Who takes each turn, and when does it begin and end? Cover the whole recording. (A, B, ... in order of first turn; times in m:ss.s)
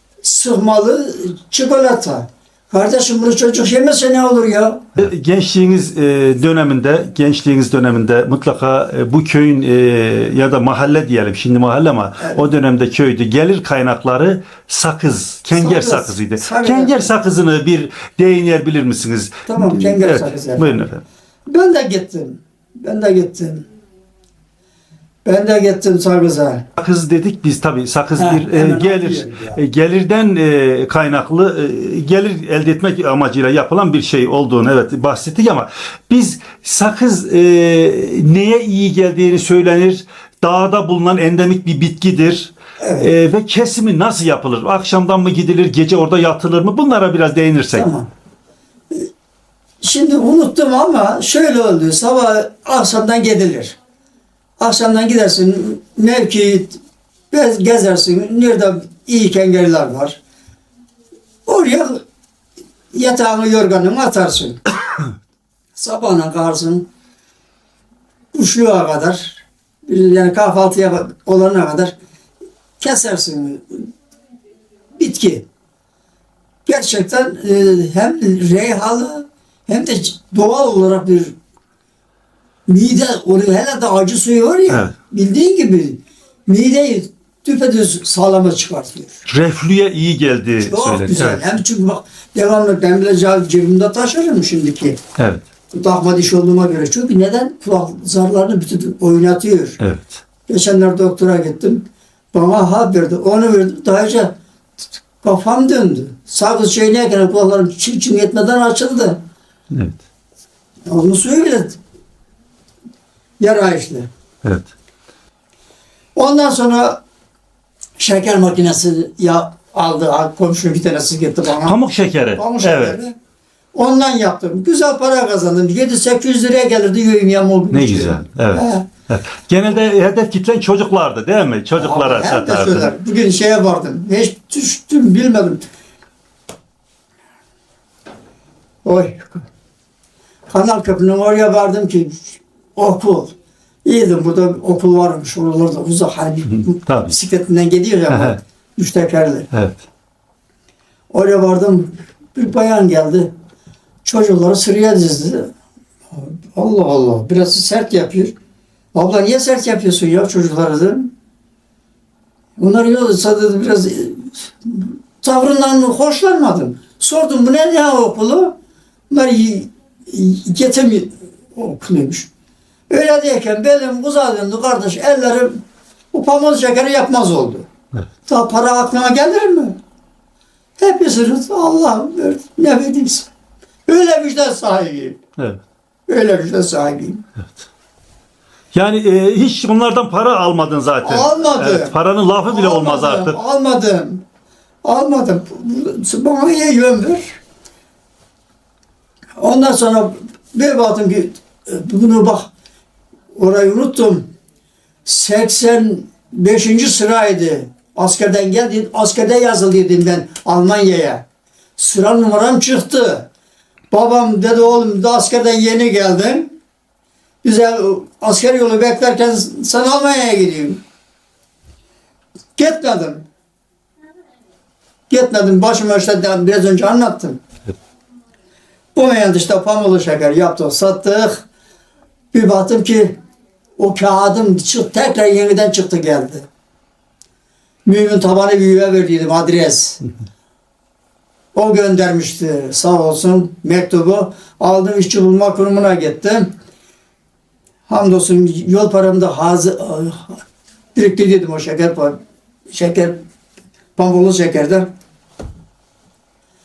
0:00.2-0:04.9 A
0:05.0-0:21.0 B
0:15.6-0:17.1 A
0:19.5-0:20.9 A
0:21.5-0:23.6 A
0:25.3-0:26.7 A
0:26.8-0:47.9 B
0:28.2-0:29.6 A
0:42.8-0:43.1 A
0:47.7-0:48.1 A
0:49.8-0:53.8 A
0:54.6-0:56.8 A
0:57.3-1:00.2 A
1:01.5-1:02.0 A
1:02.9-1:04.6 A
1:05.8-1:06.9 A
1:08.3-1:12.0 A
1:12.8-1:13.9 A
1:15.0-1:15.5 A
1:16.7-1:21.4 A
1:22.7-1:29.2 A
1:29.3-1:31.5 B
1:30.6-1:35.0 A
1:35.2-1:35.4 B
1:35.7-1:39.8 A
1:39.8-1:40.2 B
1:40.5-1:44.4 A
1:45.2-1:49.2 A
1:49.7-1:50.0 B
1:50.9-1:51.8 A
1:53.4-1:54.1 A
1:56.2-1:57.0 A
1:58.0-2:01.8 A
2:01.6-2:03.0 B
2:02.4-2:03.2 A
2:03.7-2:08.9 A
2:07.7-2:12.9 B
2:11.8-2:15.6 A
2:18.8-2:19.4 A
2:20.5-2:29.5 A
2:26.5-2:27.1 B
2:28.1-2:28.4 B
2:29.5-2:29.8 B
2:31.1-2:33.3 A
2:34.0-2:35.5 A
2:36.1-2:38.4 A
2:38.9-2:41.1 A
2:42.6-2:48.6 A
2:49.1-2:52.3 A
2:52.9-2:57.7 A
2:58.3-2:59.8 A
3:00.8-3:03.3 A
3:03.9-3:05.2 A
3:06.1-3:07.2 A
3:08.7-3:13.4 B
3:11.0-3:11.9 A
3:12.5-3:14.2 A
3:14.8-3:17.4 A
3:19.4-3:22.5 A
3:23.4-3:24.3 A
3:25.0-3:31.2 A
3:31.8-3:33.3 A
3:33.9-3:36.5 A
3:37.4-3:40.8 A
3:42.6-3:43.3 A
3:45.1-3:47.4 A
3:49.0-3:51.5 A
3:52.3-3:53.2 A
3:53.8-3:56.5 A
3:57.8-4:00.0 A
4:01.5-4:06.5 A
4:07.9-4:10.4 A
4:11.0-4:13.2 A
4:14.0-4:14.9 A